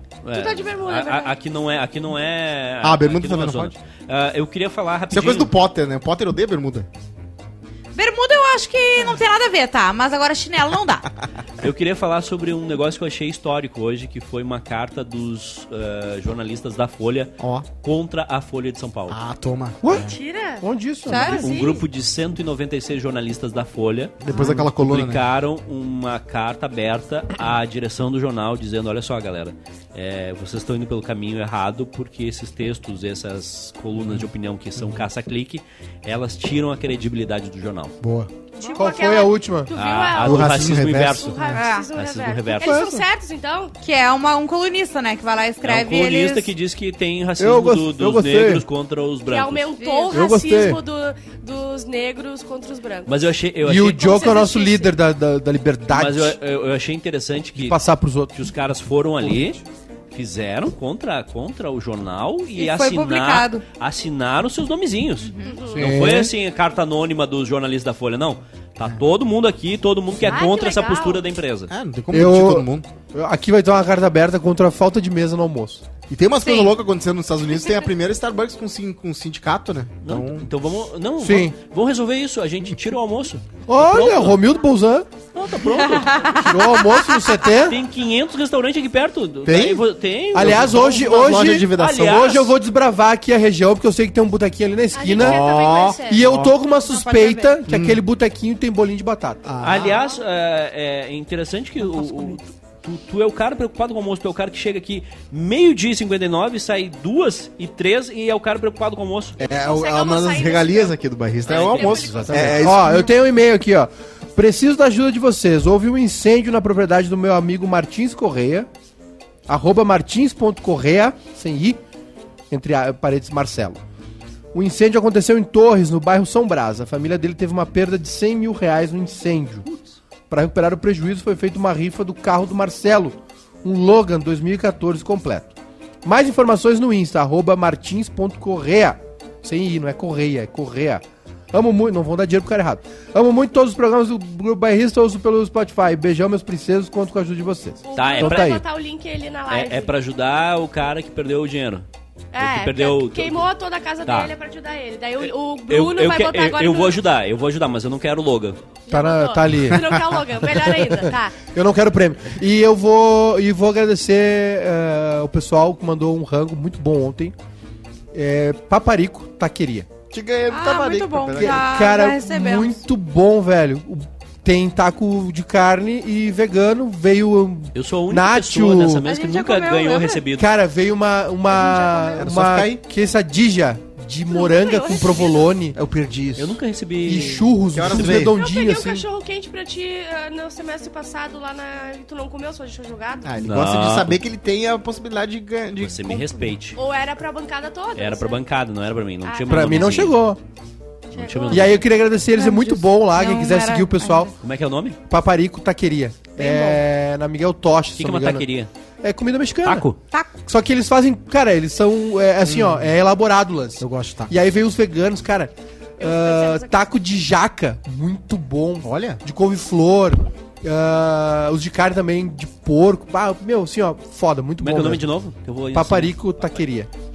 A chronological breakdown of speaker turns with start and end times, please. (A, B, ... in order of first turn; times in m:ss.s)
0:00.2-0:05.5 A
0:00.3-0:01.3 B
0:02.8-0:03.7 C
0:05.1-0:06.9 C
0:07.9-0:11.1 D
0:11.6-0:19.2 A
0:17.4-0:17.6 C
0:19.1-0:20.1 C
0:19.8-0:21.4 E
0:19.9-0:20.6 B
0:21.0-0:21.6 D
0:21.2-0:21.8 B
0:21.3-0:37.9 A
0:24.2-0:25.2 C
0:24.4-0:24.6 E
0:38.0-0:38.3 C
0:38.6-0:43.7 B
0:38.7-0:39.7 E
0:39.7-0:42.8 A
0:40.2-0:41.3 C
0:41.5-0:41.9 D
0:42.6-0:43.0 E
0:43.8-0:46.5 D
0:45.6-0:49.7 A
0:47.4-0:48.6 E
0:49.3-0:53.1 B
0:49.8-0:50.2 D
0:50.1-0:50.8 E
0:53.1-0:54.2 A
0:53.6-0:56.4 E
0:54.0-0:54.9 B
0:55.9-0:59.6 A
0:57.6-0:58.4 E
0:59.2-0:59.5 E
1:00.1-1:11.7 A
1:02.5-1:03.6 D
1:05.2-1:05.6 D
1:05.4-1:06.0 B
1:05.7-1:06.3 E
1:10.3-1:11.2 B
1:11.7-1:12.9 C
1:12.1-1:15.8 E
1:16.1-1:20.5 C
1:16.4-1:16.7 D
1:20.0-1:24.4 A
1:21.2-1:21.5 E
1:23.7-1:25.1 E
1:25.3-1:26.4 A
1:25.8-1:27.4 D
1:26.4-1:27.8 E
1:27.4-1:32.5 A
1:29.4-1:32.3 C
1:30.3-1:35.4 E
1:34.9-1:36.2 B
1:35.2-1:36.5 C
1:36.1-1:39.4 E
1:36.8-1:37.5 D
1:37.7-1:38.0 C
1:39.4-1:40.0 C
1:39.6-1:49.4 A
1:41.9-1:42.3 E
1:49.4-1:50.9 B
1:49.4-1:53.1 C
1:51.5-1:52.7 A
1:51.5-1:53.1 B
1:52.1-1:58.7 E
1:59.5-2:01.8 E
2:02.5-2:03.8 E
2:04.5-2:09.7 E
2:10.3-2:15.5 E
2:16.0-2:28.6 E
2:27.8-2:29.9 B
2:27.9-2:28.6 A
2:29.5-2:31.8 A
2:32.3-2:37.0 B
2:32.4-2:33.4 A
2:34.0-2:34.3 A
2:35.2-2:38.6 A
2:38.9-2:41.4 B
2:38.9-2:47.3 E
2:48.1-2:49.9 E
2:50.1-2:51.6 C
2:50.5-2:52.8 D
2:51.4-2:59.0 E
2:57.7-3:00.5 A
2:59.0-3:00.2 D
3:00.4-3:05.8 E
3:01.5-3:02.2 B
3:01.6-3:02.0 D
3:02.1-3:02.8 C
3:04.3-3:05.5 B
3:05.7-3:06.6 C
3:06.4-3:08.2 A
3:07.0-3:09.0 E
3:07.7-3:08.3 C
3:08.3-3:13.3 B
3:13.2-3:16.5 C
3:13.4-3:14.2 A
3:15.8-3:16.8 A
3:16.8-3:18.4 B
3:18.0-3:20.2 A
3:19.2-3:20.0 B
3:19.5-3:20.4 E
3:21.1-3:21.8 A
3:21.1-3:21.8 B
3:21.5-3:24.3 E
3:22.3-3:24.3 D
3:24.4-3:25.0 A
3:25.1-3:28.4 E
3:26.4-3:26.8 B
3:28.0-3:28.7 A
3:29.0-3:29.8 E
3:29.6-3:30.0 A
3:30.4-3:45.0 E
3:32.4-3:32.9 C
3:33.8-3:34.3 C
3:36.0-3:36.8 B
3:38.8-3:39.2 C
3:44.6-3:46.6 A
3:45.7-3:46.9 E